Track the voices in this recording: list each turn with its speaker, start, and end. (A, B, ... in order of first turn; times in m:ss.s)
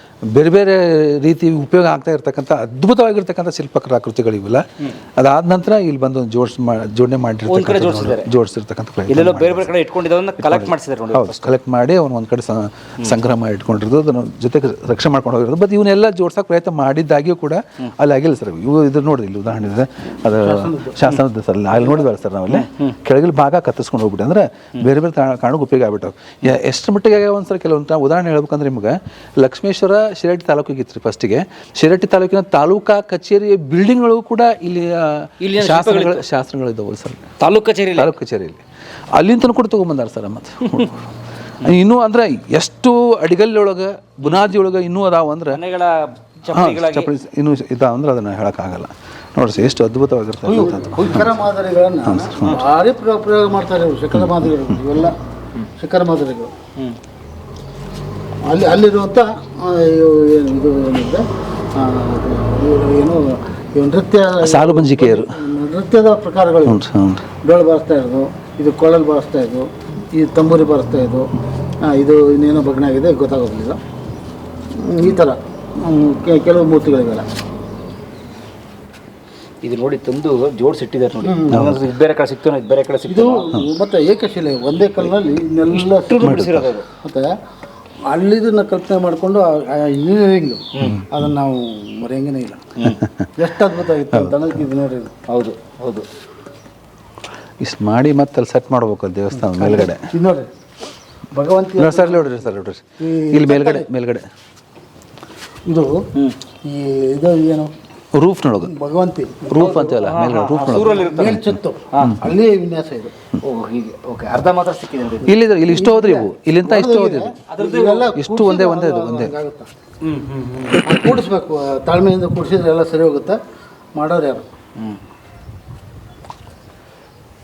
0:00.3-0:04.6 A
0:05.2-0:09.7 A
0:07.5-0:08.3 B
0:09.1-0:11.5 B
0:10.4-0:37.3 A
0:20.2-0:21.0 C
0:22.5-0:22.9 B
0:35.4-0:36.2 B
0:37.4-0:38.1 B
0:37.9-0:38.6 A
0:39.1-0:41.0 A
0:41.6-0:45.6 A
0:45.5-0:47.1 B
0:46.5-0:51.3 A
0:50.5-0:51.3 B
0:50.5-0:55.2 C
0:52.0-0:52.6 A
0:54.1-0:54.5 A
0:55.8-0:56.5 C
0:58.4-1:06.8 C
1:04.4-1:05.4 A
1:06.6-1:07.2 A
1:07.4-1:11.3 C
1:11.8-1:13.8 C
1:14.7-1:17.3 C
1:19.6-1:23.5 B
1:21.2-1:21.7 C
1:21.5-1:21.8 A
1:23.1-1:26.4 C
1:25.8-1:26.9 B
1:26.2-1:26.7 A
1:27.0-1:27.3 C
1:28.1-1:32.7 C
1:30.7-1:31.0 B
1:33.4-1:35.2 C
1:34.1-1:34.4 A
1:35.3-1:36.0 B
1:37.6-1:40.1 A
1:39.5-1:40.5 C
1:41.3-1:42.4 C
1:41.8-1:44.3 A
1:43.0-1:43.9 C
1:45.6-1:46.0 C
1:46.6-1:47.7 C
1:48.1-1:48.7 A
1:48.6-1:49.5 C
1:49.5-1:51.1 A
1:49.5-1:52.2 B
1:51.0-1:53.1 C
1:53.4-1:55.3 B
1:55.2-1:57.3 A
1:55.7-1:59.7 C
1:57.5-1:58.1 B
1:58.2-1:59.3 A
2:00.0-2:00.8 B
2:00.7-2:03.4 C
2:03.9-2:04.5 C